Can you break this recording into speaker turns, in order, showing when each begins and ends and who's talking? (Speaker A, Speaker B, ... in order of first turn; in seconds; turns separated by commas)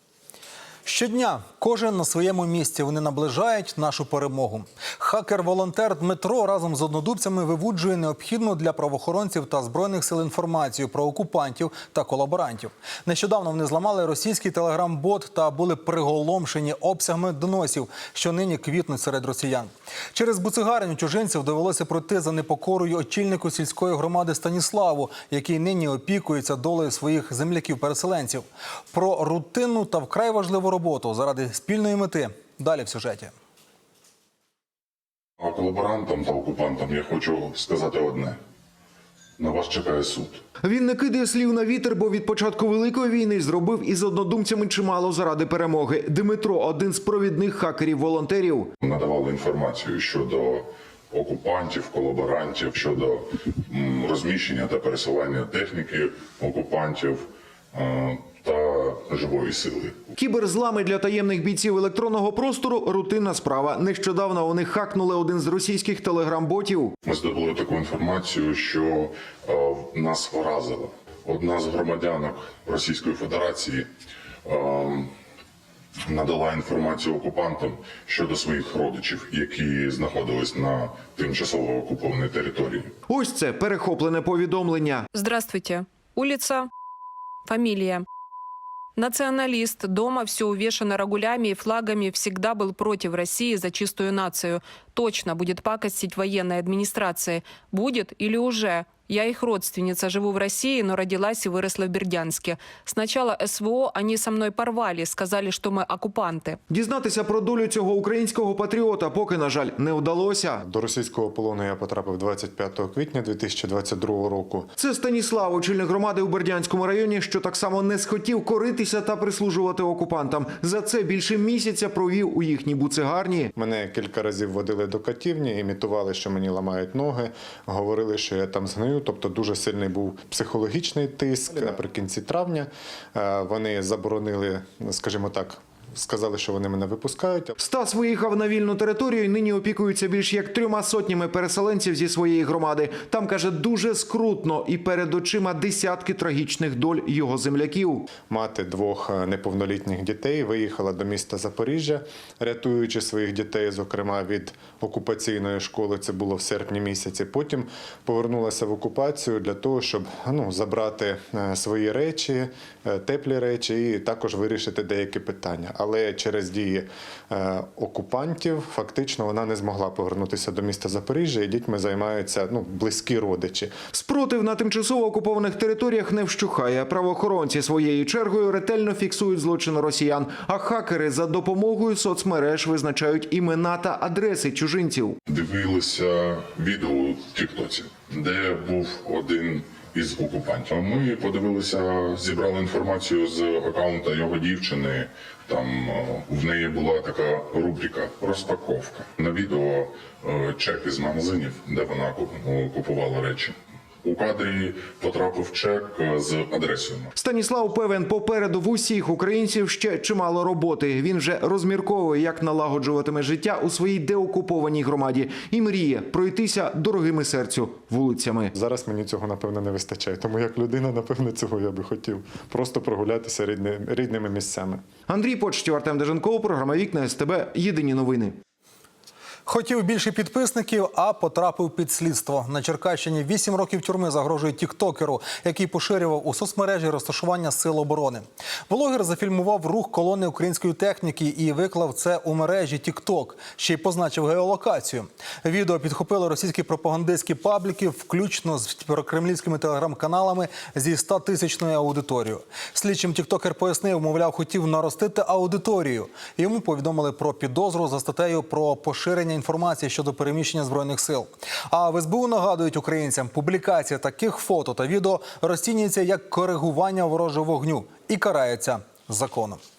Speaker A: 0.8-33.3, Speaker B: 35.4-38.4, Speaker B: 39.4-40.4, Speaker C: 40.6-48.7, Speaker B: 48.8-60.1, Speaker C: 60.2-66.9, Speaker B: 67.0-73.8, Speaker B: 74.4-75.1, Speaker B: 76.1-82.9, Speaker C: 83.1-85.0, Speaker D: 85.1-86.7, Speaker D: 87.5-88.0, Speaker D: 89.0-106.6, Speaker C: 106.7-110.6, Speaker E: 110.6-114.7, Speaker C: 114.8-123.5, Speaker E: 123.5-137.5, Speaker C: 137.6-148.1, Speaker E: 148.2-173.8, Speaker C: 173.9-185.2, Speaker B: 185.3-207.1, Speaker C: 207.2-218.5, Speaker E: 218.5-224.8, Speaker C: 225.1-228.4, Speaker A: 229.5-269.6